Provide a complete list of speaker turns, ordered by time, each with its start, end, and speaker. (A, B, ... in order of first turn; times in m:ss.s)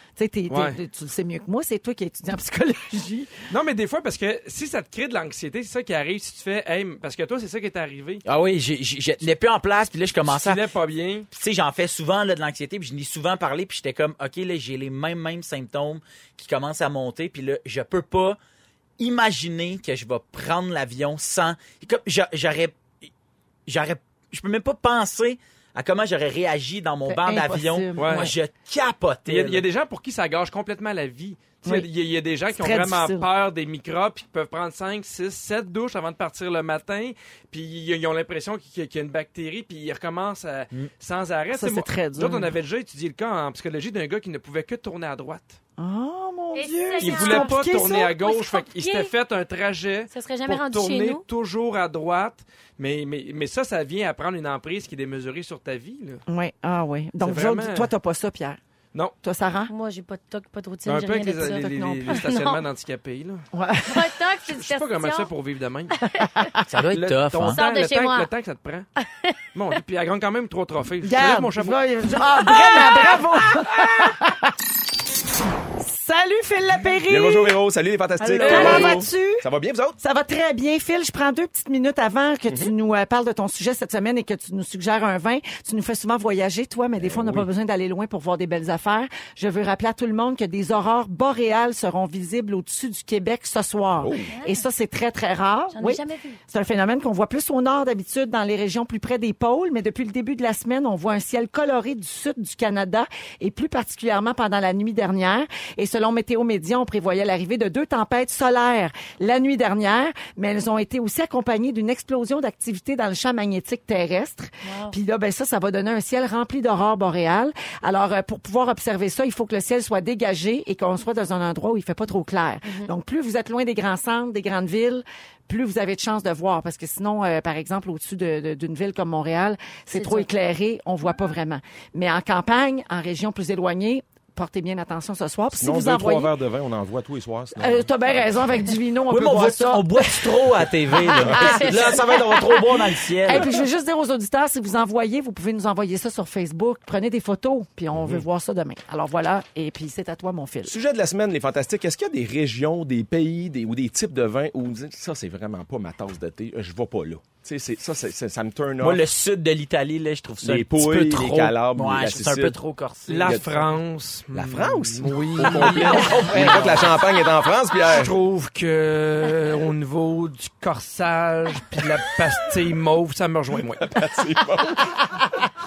0:00.2-0:03.4 A
0:00.5-0:00.8 B
0:03.5-0:08.2 B
0:08.2-0:10.6 C
0:10.3-0:11.3 B
0:11.3-0:18.4 C
0:19.0-0:22.8 C
0:23.7-0:29.6 C
0:27.1-0:28.3 A
0:28.0-0:28.3 B
0:29.3-0:45.6 B
0:32.5-0:33.3 A
0:41.5-0:42.5 A
0:45.8-0:48.2 A
0:46.5-0:49.1 D
0:47.0-0:56.2 B
0:50.1-0:51.2 D
0:56.3-0:58.6 A
0:57.2-0:57.9 B
0:59.2-0:59.7 A
0:59.7-1:02.6 D
1:00.9-1:03.4 B
1:01.6-1:02.2 A
1:03.5-1:04.0 A
1:03.9-1:05.3 D
1:04.5-1:06.0 B
1:06.0-1:06.3 D
1:06.4-1:06.7 A
1:06.7-1:07.6 C
1:06.9-1:08.9 B
1:07.5-1:08.3 D
1:09.0-1:09.4 D
1:09.5-1:11.8 B
1:11.0-1:14.5 A
1:15.8-1:17.6 A
1:17.1-1:20.0 E
1:18.2-1:19.4 A
1:18.5-1:19.0 D
1:18.5-1:18.8 B
1:20.0-2:16.3 A
1:27.0-1:27.5 E
1:34.0-1:34.3 E
1:34.3-1:34.6 D
1:35.7-1:36.4 D
1:54.6-1:55.0 D
2:02.6-2:02.9 D
2:09.9-2:10.3 D
2:15.5-2:17.9 E
2:17.6-2:30.8 A
2:19.1-2:23.6 C
2:21.4-2:21.9 D
2:28.0-2:28.2 E
2:30.7-2:39.0 E
2:38.8-2:43.4 C
2:40.4-2:42.6 E
2:43.1-2:46.5 B
2:43.2-2:43.7 E
2:44.3-2:48.1 E
2:45.4-2:46.9 C
2:47.9-2:54.0 B
2:53.8-2:55.2 E